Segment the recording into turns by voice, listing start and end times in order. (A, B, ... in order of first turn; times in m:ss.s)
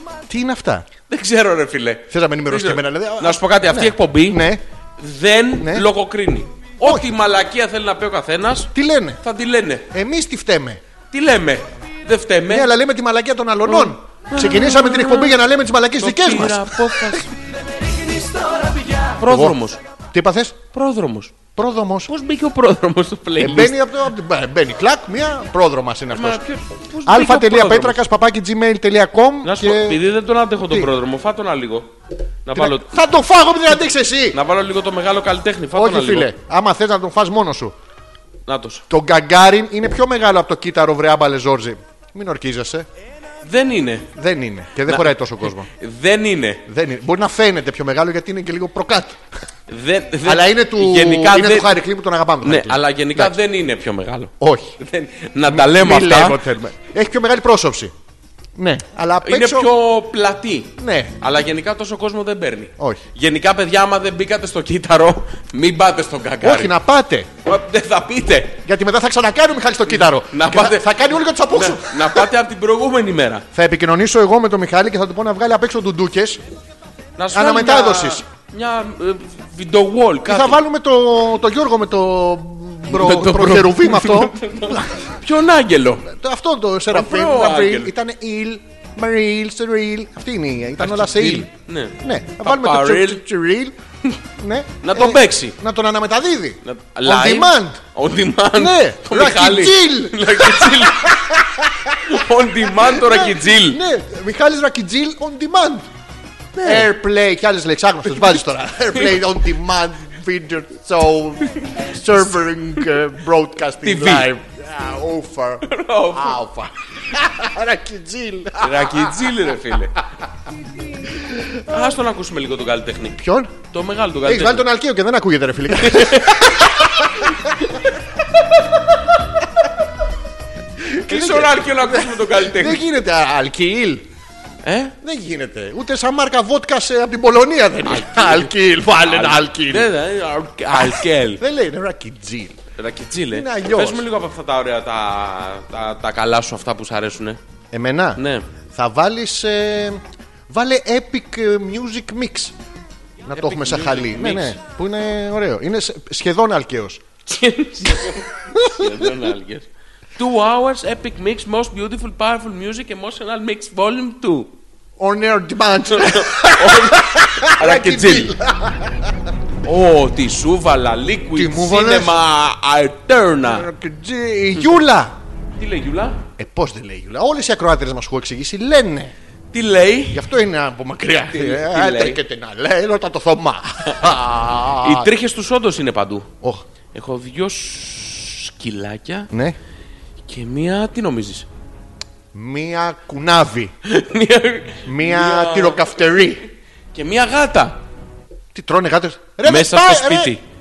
0:00.2-0:00.9 A
0:01.1-0:04.5 B
0:02.1-0:04.6 A
0:05.0-0:09.9 B
0:05.6-0:05.9 A
0:08.7-0:09.2 A
0:09.9-0:10.8 A
0:11.1-0:12.7 B
0:12.5-0:17.2 A
0:13.6-0:15.4 B
0:16.0-0:17.3 B
0:18.2-0:19.8 B
0:19.2-0:19.6 A
0:20.1-0:20.6 A
0:20.7-0:21.4 B
0:21.5-0:22.1 A
0:22.1-0:23.8 B
0:23.4-0:26.4 A
0:26.1-0:28.0 B
0:27.0-0:30.0 A
0:29.4-0:31.9 B
0:32.4-0:32.9 B
0:32.5-0:34.4 A
0:34.3-0:36.3 B
0:35.7-0:37.7 A
0:38.5-0:38.8 B
0:38.9-0:42.9 A
0:43.4-0:44.1 B
0:44.1-0:45.7 A
0:44.9-0:46.6 B
0:46.7-0:49.2 A
0:49.7-0:51.8 B
0:50.2-0:53.4 A
0:52.4-0:56.4 B
0:54.4-0:54.7 A
0:55.4-0:57.9 A
0:58.6-0:59.7 A
0:59.2-1:06.7 B
1:00.8-1:01.1 A
1:06.4-1:07.3 A
1:07.4-1:08.6 B
1:08.6-1:12.3 A
1:09.9-1:13.4 B
1:13.5-1:16.4 A
1:17.2-1:20.6 B
1:17.3-1:18.2 A
1:20.2-1:25.1 A
1:22.9-1:26.1 B
1:26.0-1:31.5 A
1:26.9-1:27.9 B
1:30.8-1:33.2 B
1:32.0-1:33.7 A
1:34.4-1:37.8 A
1:34.8-1:35.6 B
1:36.6-1:41.2 B
1:38.5-1:45.9 A
1:42.0-1:43.8 B
1:46.5-1:46.9 B
1:46.6-1:59.5 A
1:48.9-1:49.2 B
1:51.5-1:51.9 B
1:53.8-1:54.3 B
1:55.6-1:56.5 B
1:58.6-2:00.0 B
2:01.0-2:01.9 A
2:01.7-2:04.7 B
2:03.2-2:03.5 A
2:04.2-2:07.8 A
2:05.7-2:07.9 B
2:10.8-2:14.1 A
2:11.0-2:12.8 B
2:14.6-2:14.9 B
2:15.0-2:19.9 A
2:17.8-2:21.4 B
2:20.7-2:22.6 A
2:22.8-2:27.4 B
2:23.3-2:24.0 A
2:27.7-2:28.2 A
2:28.2-2:28.4 B
2:28.7-2:32.5 A
2:33.2-2:37.0 A
2:33.3-2:34.6 B
2:37.2-2:44.5 B
2:38.5-2:39.2 A
2:45.0-2:49.2 A
2:45.9-2:48.3 B
2:49.6-2:53.7 B
2:51.3-2:52.2 A
2:53.4-2:55.2 A
2:55.6-2:56.2 B
2:56.4-2:59.1 A
2:59.5-3:00.2 B
3:00.1-3:05.1 A
3:01.3-3:02.2 B
3:04.7-3:06.3 B
3:06.9-3:09.3 B
3:09.3-3:09.6 A
3:10.3-3:11.5 B
3:12.3-3:13.7 A
3:13.8-3:16.4 B
3:14.8-3:16.4 A
3:16.9-3:17.8 B
3:18.5-3:20.3 A
3:19.4-3:20.4 B